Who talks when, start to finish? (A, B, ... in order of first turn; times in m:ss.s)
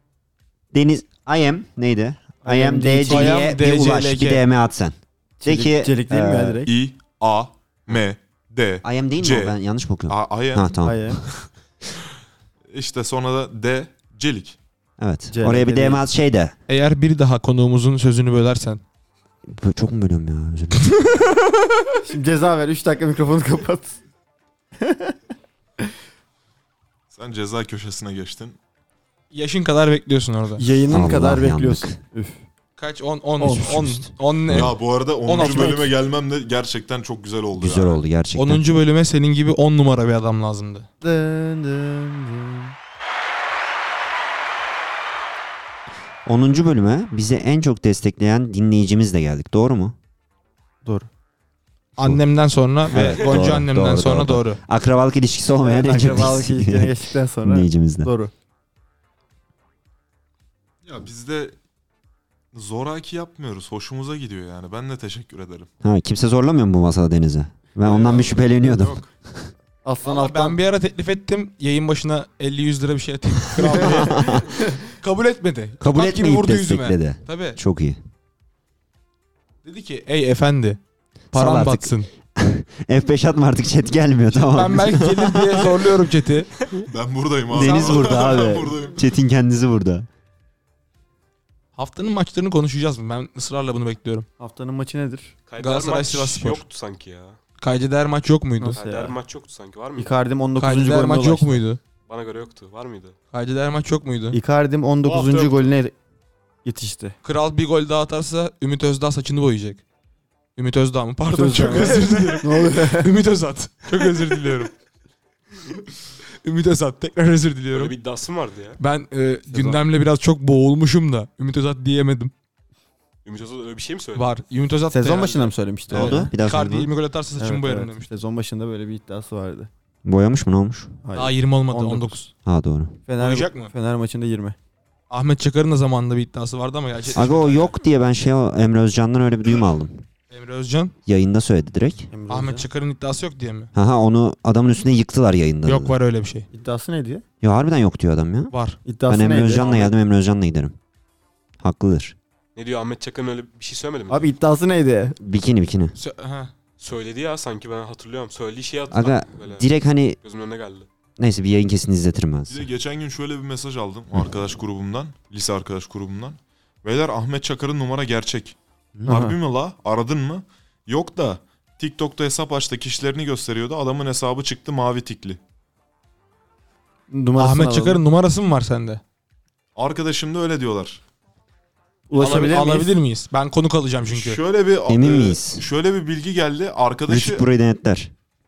0:00.7-0:06.6 A
0:02.4-0:03.5 B
0:03.0-0:04.4 C
0:05.4-0:06.7 B
0:06.6-0:09.6 D
0:08.8-0:11.2 A
0:10.1-0:10.8 D
0:10.8-0:11.2 B
0:12.7-0:14.6 D
0:15.0-0:16.5 A
0:15.3-0:16.0 B
0:16.7-0:18.8 C
0:19.5-0:21.1 A
0:22.0-0:24.0 B
0:24.8-0:25.2 B
0:27.1-0:28.6 D
0:29.3-0:30.6 C
0:30.6-0:32.4 B
0:30.9-0:32.0 A
0:32.8-0:35.9 C
0:33.4-0:33.8 B
0:33.6-0:34.8 A
0:34.5-0:38.0 D
0:37.6-0:38.7 A
0:38.4-0:40.9 C
0:41.0-0:42.7 B
0:46.3-0:50.0 A
0:52.0-0:54.6 C
0:52.9-0:58.1 A
0:55.6-0:58.3 B
1:00.9-1:01.6 D
1:02.5-1:05.7 D
1:05.8-1:09.5 A
1:07.8-1:09.1 D
1:09.8-1:10.6 B
1:10.0-1:17.6 C
1:13.6-1:14.5 B
1:13.7-1:14.4 A
1:15.8-1:18.0 A
1:19.6-1:20.8 C
1:21.3-1:22.1 C
1:21.3-1:25.8 A
1:24.3-1:26.5 C
1:26.9-1:29.0 D
1:27.5-1:30.1 A
1:27.6-1:28.3 C
1:31.8-1:34.3 C
1:34.4-1:35.4 B
1:35.5-1:37.4 E
1:35.6-1:36.6 C
1:37.6-1:38.8 C
1:38.6-1:39.2 B
1:38.7-1:40.2 E
1:40.0-1:41.6 B
1:40.6-1:41.8 C
1:42.1-1:43.2 E
1:43.3-1:44.4 C
1:44.3-1:45.9 B
1:45.0-1:45.7 E
1:46.6-1:47.2 B
1:47.2-1:49.8 C
1:50.6-1:54.7 C
1:51.3-1:53.1 B
1:56.4-1:57.9 C
1:57.7-1:58.8 E
1:58.8-2:02.3 C
1:59.5-1:59.8 B
2:03.2-2:04.4 E
2:04.2-2:08.1 C
2:04.9-2:06.3 B
2:05.9-2:06.9 A
2:07.4-2:09.7 B
2:10.0-2:11.0 A
2:11.0-2:12.2 B
2:11.2-2:12.3 C
2:12.4-2:13.0 A
2:13.1-2:14.6 B
2:13.2-2:13.7 C
2:15.1-2:17.7 C
2:17.1-2:20.1 A
2:20.3-2:21.0 C
2:21.1-2:22.1 A
2:22.1-2:22.7 B
2:22.3-2:23.7 C
2:23.7-2:26.0 A
2:25.6-2:26.5 C
2:26.5-2:27.2 B
2:27.4-2:28.5 A
2:28.5-2:28.8 C
2:28.8-2:29.9 B
2:29.0-2:30.8 A
2:29.6-2:29.9 E
2:31.6-2:32.2 A
2:32.6-2:34.3 E
2:34.1-2:35.2 B
2:35.2-2:36.0 A
2:36.0-2:36.5 C
2:36.8-2:39.7 E
2:38.9-2:40.2 A
2:40.2-2:40.9 E
2:41.2-2:42.7 A
2:42.5-2:55.4 D
2:49.0-2:49.2 A
2:49.1-2:49.4 B
2:57.1-2:58.0 B
2:57.4-2:59.0 C
2:59.8-3:01.0 D
3:02.1-3:02.9 B
3:02.2-3:04.4 C
3:04.1-3:07.5 D
3:04.9-3:05.6 A
3:07.1-3:08.1 A